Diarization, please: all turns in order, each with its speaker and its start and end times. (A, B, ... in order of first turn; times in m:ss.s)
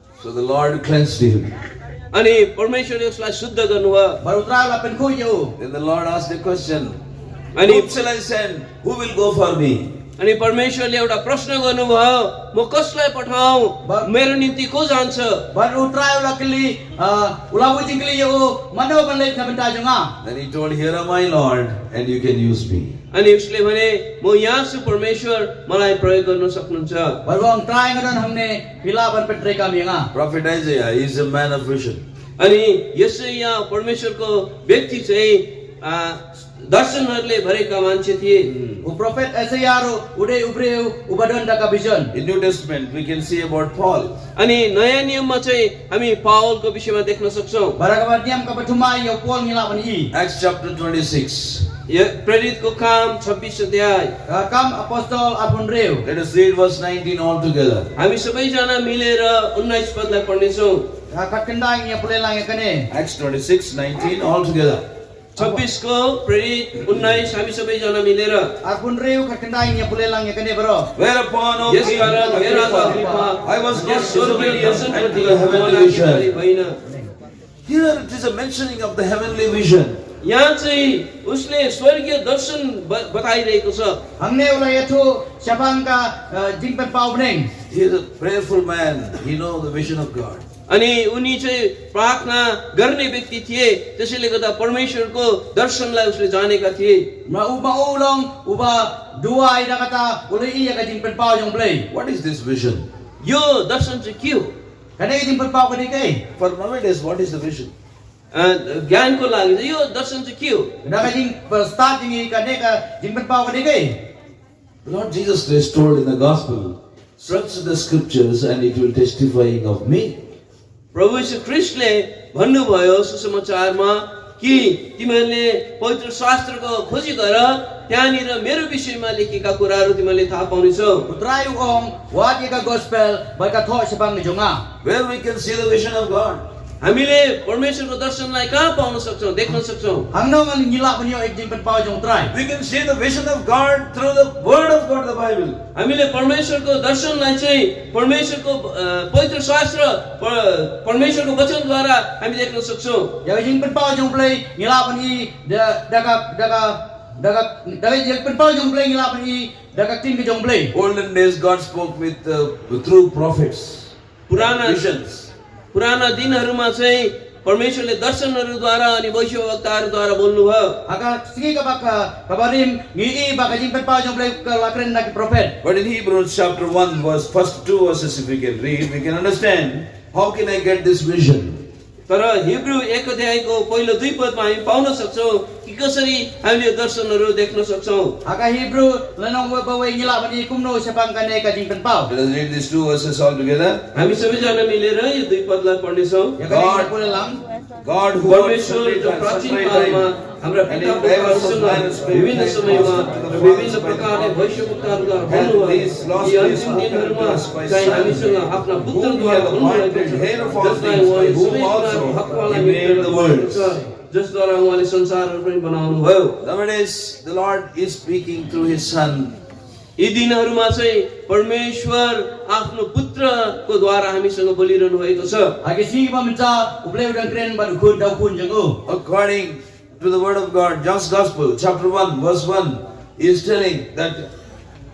0:00.2-0:01.6 A
0:02.1-0:04.2 B
0:04.2-0:05.5 C
0:05.6-0:07.0 A
0:07.5-0:07.9 B
0:07.6-0:10.0 A
0:10.2-0:15.4 B
0:15.5-0:20.1 C
0:20.2-0:23.0 A
0:23.1-0:27.2 B
0:27.2-0:30.1 C
0:30.1-0:32.0 A
0:32.4-0:38.6 B
0:38.8-0:42.1 C
0:42.1-0:44.1 A
0:44.4-0:47.8 B
0:47.8-0:50.1 C
0:50.1-0:51.6 A
0:51.9-0:54.1 B
0:54.3-0:56.0 C
0:56.0-0:57.9 A
0:58.0-1:00.8 B
1:01.1-1:02.9 C
1:02.9-1:04.8 A
1:05.4-1:08.5 B
1:05.4-1:05.6 C
1:08.6-1:10.9 C
1:11.0-1:16.3 A
1:11.7-1:16.8 B
1:12.1-1:14.0 C
1:17.7-1:20.0 A
1:20.2-1:24.0 B
1:24.2-1:27.5 C
1:27.7-1:30.4 A
1:30.7-1:37.1 B
1:37.2-1:41.9 C
1:41.9-1:42.8 A
1:43.2-1:44.5 B
1:45.0-1:46.2 C
1:46.4-1:47.7 A
1:48.3-1:50.7 B
1:50.8-1:54.0 C
1:54.8-2:00.2 A
2:00.9-2:11.1 B
2:11.1-2:14.6 C
2:14.8-2:16.4 A
2:16.8-2:20.1 B
2:20.1-2:22.3 C
2:22.3-2:25.6 A
2:25.8-2:33.2 B
2:33.2-2:40.7 C
2:40.7-2:45.3 A
2:44.3-2:44.9 B
2:45.7-2:50.8 B
2:50.9-2:55.6 C
2:55.6-3:01.6 A
3:02.1-3:08.2 B
3:08.2-3:12.1 C
3:12.1-3:13.9 A
3:13.9-3:16.4 B
3:16.4-3:17.4 C
3:16.5-3:16.9 A
3:17.8-3:20.1 A
3:18.2-3:36.4 B
3:20.7-3:24.3 A
3:25.3-3:33.8 A
3:36.4-3:39.4 A
3:40.0-3:45.6 B
3:45.6-3:48.8 C
3:48.9-3:54.3 A